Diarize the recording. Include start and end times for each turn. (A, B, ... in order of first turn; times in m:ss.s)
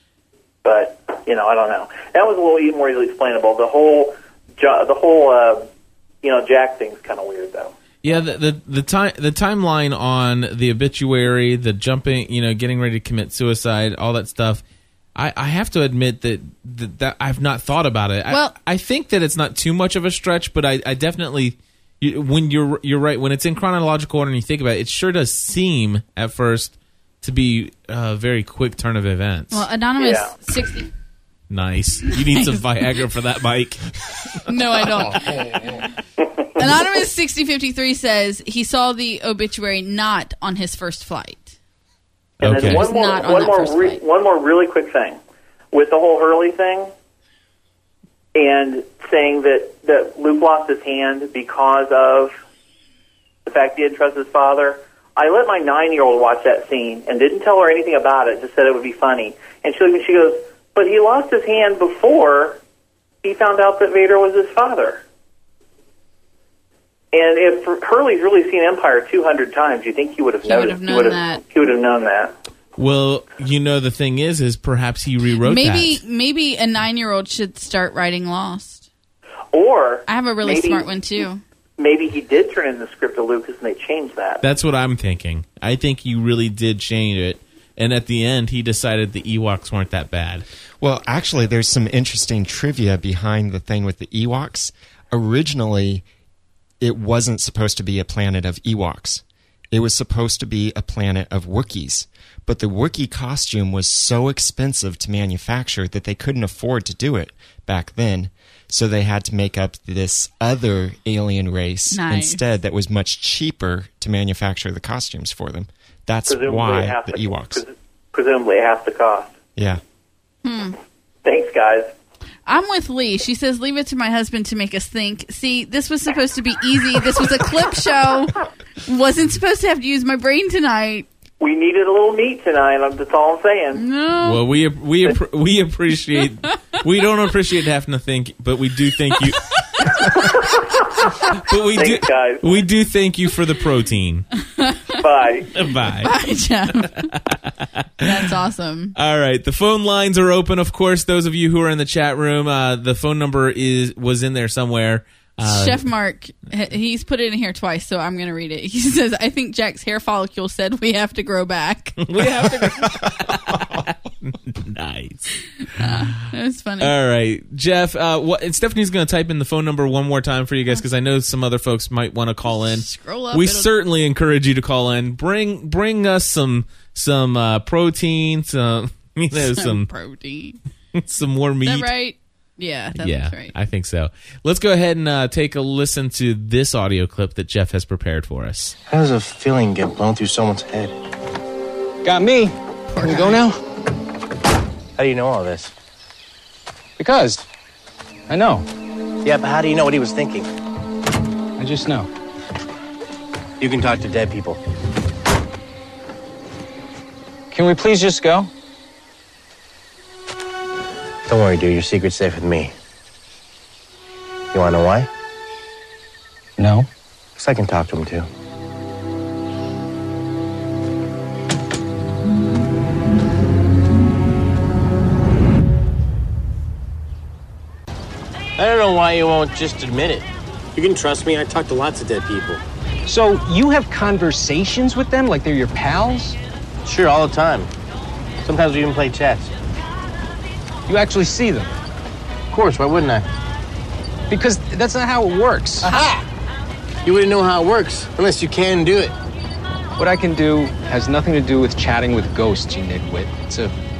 0:00.6-0:05.7 A
0:06.2-0:07.7 A
0:08.0-0:14.6 B
0:15.2-0:29.6 B
0:18.3-0:18.6 C
0:29.5-0:30.9 C
0:30.0-0:30.3 A
0:31.5-0:33.8 B
0:32.1-0:32.6 C
0:34.4-0:35.9 C
0:36.6-0:41.5 C
0:42.4-0:42.9 B
0:42.4-0:45.2 A
0:42.4-0:44.0 C
0:45.7-0:46.9 A
0:48.3-0:52.3 A
0:53.4-1:02.6 A
1:03.2-1:05.0 A
1:07.1-1:12.3 A
1:10.4-1:11.4 C
1:12.8-1:16.0 B
1:15.4-1:18.8 C
1:19.5-1:20.9 A
1:20.1-1:21.4 C
1:21.8-1:24.4 A
1:24.4-1:30.4 B
1:30.8-1:36.0 D
1:36.8-1:57.6 D
1:51.9-1:52.4 C
1:56.3-1:59.3 A
2:00.4-2:00.8 C
2:01.2-2:01.9 A
2:02.4-2:11.0 C
2:11.4-2:13.8 A
2:13.7-2:14.4 C
2:14.2-2:20.1 B
2:20.2-2:20.8 A
2:21.2-2:24.3 B
2:21.7-2:22.6 A
2:24.5-2:25.0 C
2:25.0-2:25.5 A
2:25.5-2:26.1 B
2:26.0-2:27.1 C
2:26.8-2:27.5 B
2:28.0-2:28.9 C
2:28.9-2:35.8 B
2:35.4-2:42.2 C
2:42.0-2:45.9 B
2:45.7-2:46.9 C
2:46.8-2:59.9 B
2:52.5-2:53.7 C
2:59.4-3:00.6 C
3:01.0-3:01.9 B
3:01.6-3:03.5 C
3:03.0-3:08.7 B
3:08.9-3:10.9 E
3:12.0-3:13.6 F
3:12.9-3:13.4 C
3:15.0-3:15.7 E
3:17.0-3:17.4 F
3:18.3-3:18.6 F
3:19.2-3:20.5 E
3:21.6-3:22.1 F
3:23.6-3:24.6 E
3:27.5-3:28.5 F
3:31.3-3:32.7 E
3:34.5-3:35.1 E
3:36.6-3:36.9 F
3:37.4-3:38.3 E
3:48.6-3:52.6 E
3:53.0-3:56.4 F
3:56.8-3:57.7 E
3:58.4-3:59.5 E
4:00.9-4:01.7 F
4:02.5-4:03.2 E
4:04.3-4:05.9 F
4:05.8-4:06.2 E
4:07.0-4:09.1 E
4:10.0-4:13.7 F